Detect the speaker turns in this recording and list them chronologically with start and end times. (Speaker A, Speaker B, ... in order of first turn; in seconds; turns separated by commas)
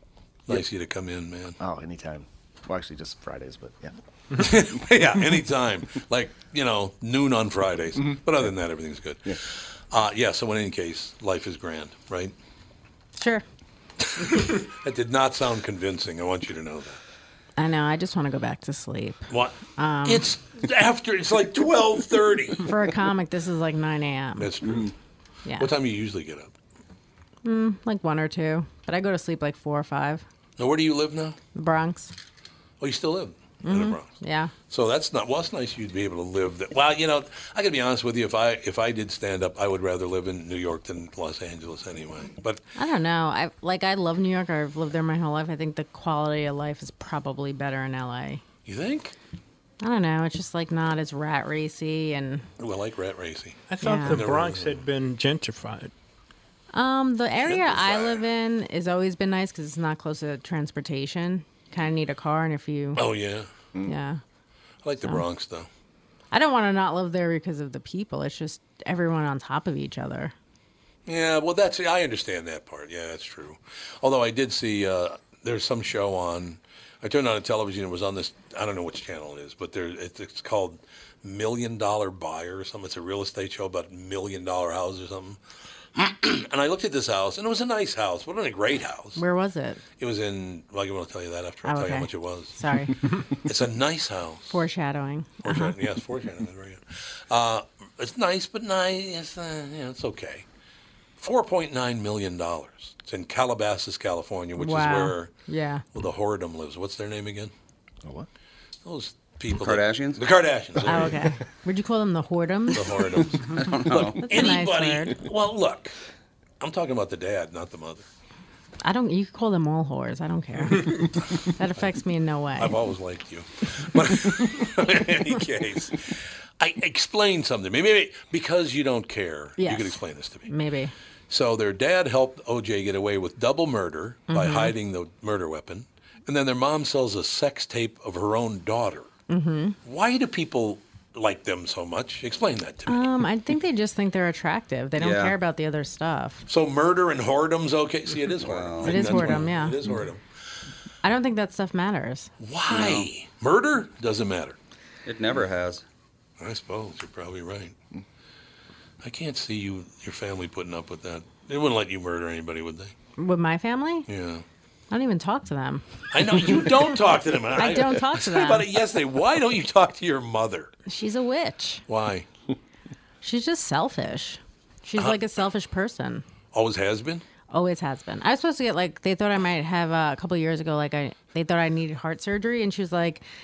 Speaker A: 0.5-1.6, Speaker B: 1.6-4.0, Speaker A: 4.3-12.3, Speaker C: 13.2-13.4, Speaker A: 14.1-17.0, Speaker C: 17.6-20.2, Speaker A: 19.3-22.6, Speaker C: 22.6-24.5, Speaker A: 24.4-24.9, Speaker C: 25.4-25.7, Speaker A: 25.6-26.5, Speaker C: 27.4-30.2, Speaker A: 30.6-31.4, Speaker C: 31.5-32.1, Speaker A: 32.8-34.1, Speaker C: 33.6-34.5, Speaker A: 34.7-42.6, Speaker C: 42.8-48.4, Speaker A: 48.6-49.1, Speaker C: 49.8-52.5, Speaker A: 52.6-54.8, Speaker D: 53.7-55.9, Speaker C: 53.8-54.2, Speaker C: 56.7-63.0, Speaker A: 57.4-58.2, Speaker A: 62.9-63.5, Speaker C: 63.9-64.2, Speaker A: 64.8-65.7, Speaker C: 66.3-70.3, Speaker A: 71.0-85.4, Speaker A: 85.9-89.2, Speaker C: 89.2-89.8, Speaker A: 90.0-92.5, Speaker C: 91.6-93.0, Speaker A: 93.4-94.6, Speaker C: 94.5-95.8, Speaker A: 95.4-100.4, Speaker A: 101.2-105.3, Speaker C: 104.6-105.8, Speaker A: 105.9-107.5, Speaker A: 108.8-111.2, Speaker E: 109.5-110.2, Speaker C: 110.9-113.1, Speaker A: 112.7-115.9, Speaker E: 113.6-114.2, Speaker C: 114.2-115.1, Speaker A: 116.6-118.0, Speaker C: 118.8-122.8, Speaker A: 122.6-130.5, Speaker C: 129.6-130.9, Speaker A: 131.3-139.1, Speaker C: 134.3-134.7, Speaker C: 139.3-139.8, Speaker A: 139.8-143.1, Speaker C: 142.9-146.4, Speaker E: 145.0-145.3, Speaker A: 146.5-150.2, Speaker E: 148.4-149.4, Speaker C: 148.8-149.8, Speaker C: 151.0-152.3, Speaker A: 152.4-154.6, Speaker E: 152.7-153.1, Speaker E: 155.0-155.8, Speaker A: 156.4-157.8, Speaker A: 159.0-162.9, Speaker C: 163.2-164.1, Speaker A: 164.1-164.4, Speaker C: 164.9-166.7, Speaker A: 166.1-170.7, Speaker C: 167.6-168.7, Speaker C: 170.9-171.8, Speaker A: 171.9-172.3, Speaker C: 173.2-176.2, Speaker A: 176.5-177.2, Speaker C: 177.5-183.2